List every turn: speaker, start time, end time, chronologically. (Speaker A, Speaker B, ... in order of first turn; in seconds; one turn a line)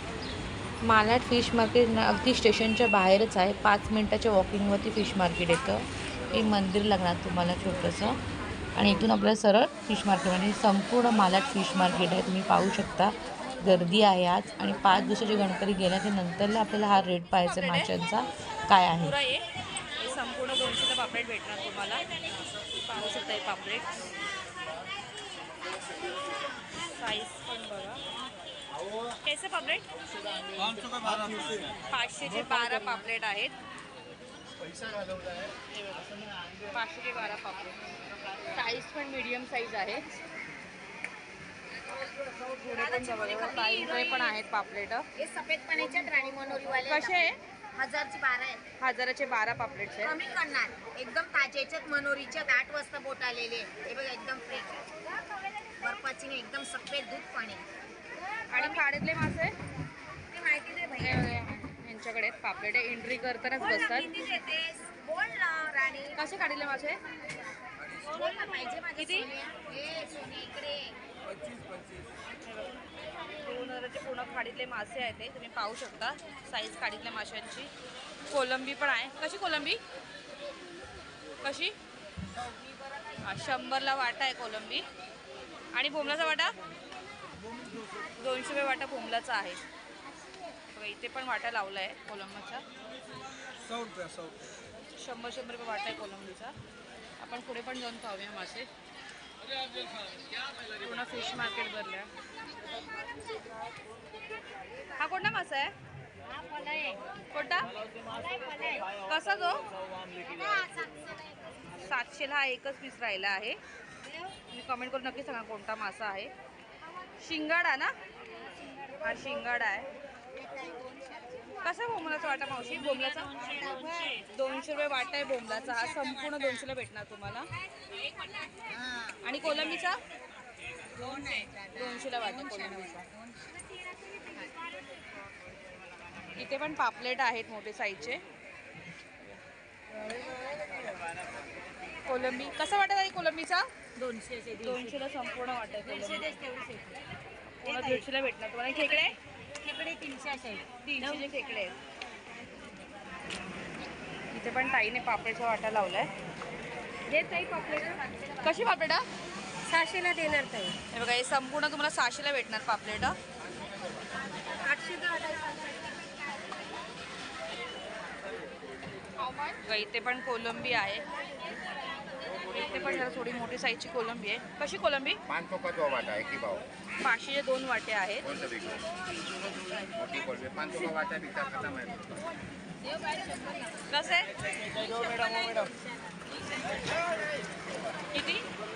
Speaker A: 0.8-8.2
Speaker A: 8.7-19.1
Speaker B: 17.4-17.9
Speaker B: 18.9-19.4
Speaker B: 20.0-22.1
Speaker B: 22.9-23.9
Speaker B: 26.9-28.0
Speaker B: 29.2-29.9
Speaker B: 31.9-33.5
Speaker B: 35.7-36.1
Speaker B: 36.7-38.0
Speaker B: 38.5-40.0
Speaker B: 42.4-45.0
Speaker C: 42.8-44.4
Speaker C: 45.2-48.6
Speaker B: 46.8-47.4
Speaker B: 48.8-50.2
Speaker C: 50.0-54.9
Speaker C: 55.8-57.6
Speaker B: 58.5-59.5
Speaker C: 60.3-61.4
Speaker B: 61.0-64.3
Speaker C: 63.6-66.2
Speaker B: 66.1-67.0
Speaker C: 68.0-71.0
Speaker B: 69.0-69.3
Speaker B: 72.4-72.8
Speaker B: 73.4-77.7
Speaker B: 78.3-79.8
Speaker B: 81.4-81.7
Speaker B: 83.2-84.8
Speaker B: 85.7-86.5
Speaker B: 88.2-89.6
Speaker B: 90.7-92.6
Speaker B: 95.0-96.5
Speaker B: 97.2-98.7
Speaker B: 100.8-102.1
Speaker C: 102.8-103.0
Speaker B: 105.0-105.7
Speaker C: 106.3-107.1
Speaker B: 107.3-107.7
Speaker C: 107.9-109.0
Speaker B: 109.0-109.6
Speaker C: 110.1-111.6
Speaker B: 111.8-113.6
Speaker B: 114.5-116.3
Speaker B: 117.2-117.9
Speaker B: 119.0-119.9
Speaker C: 120.4-121.6
Speaker B: 121.6-123.6
Speaker C: 123.3-124.2
Speaker B: 124.2-127.5
Speaker C: 128.6-129.2
Speaker B: 129.2-130.0
Speaker C: 130.9-133.6
Speaker B: 131.0-133.1
Speaker C: 134.1-134.6
Speaker B: 136.3-138.2
Speaker C: 139.9-140.7
Speaker B: 142.1-143.7
Speaker C: 144.0-144.9
Speaker B: 144.6-146.3
Speaker C: 145.8-147.0
Speaker B: 147.5-149.2
Speaker C: 147.6-148.0
Speaker C: 149.6-151.2
Speaker B: 150.8-151.8
Speaker B: 154.3-156.1
Speaker C: 157.1-158.4
Speaker B: 158.4-159.1
Speaker C: 159.7-160.8
Speaker B: 160.9-163.1
Speaker C: 164.5-165.9
Speaker B: 169.2-171.1
Speaker B: 172.4-175.2
Speaker D: 175.3-176.7
Speaker B: 177.0-178.3
Speaker D: 178.3-182.2
Speaker C: 182.8-183.8
Speaker B: 183.9-184.3
Speaker C: 184.4-186.7
Speaker B: 188.1-188.4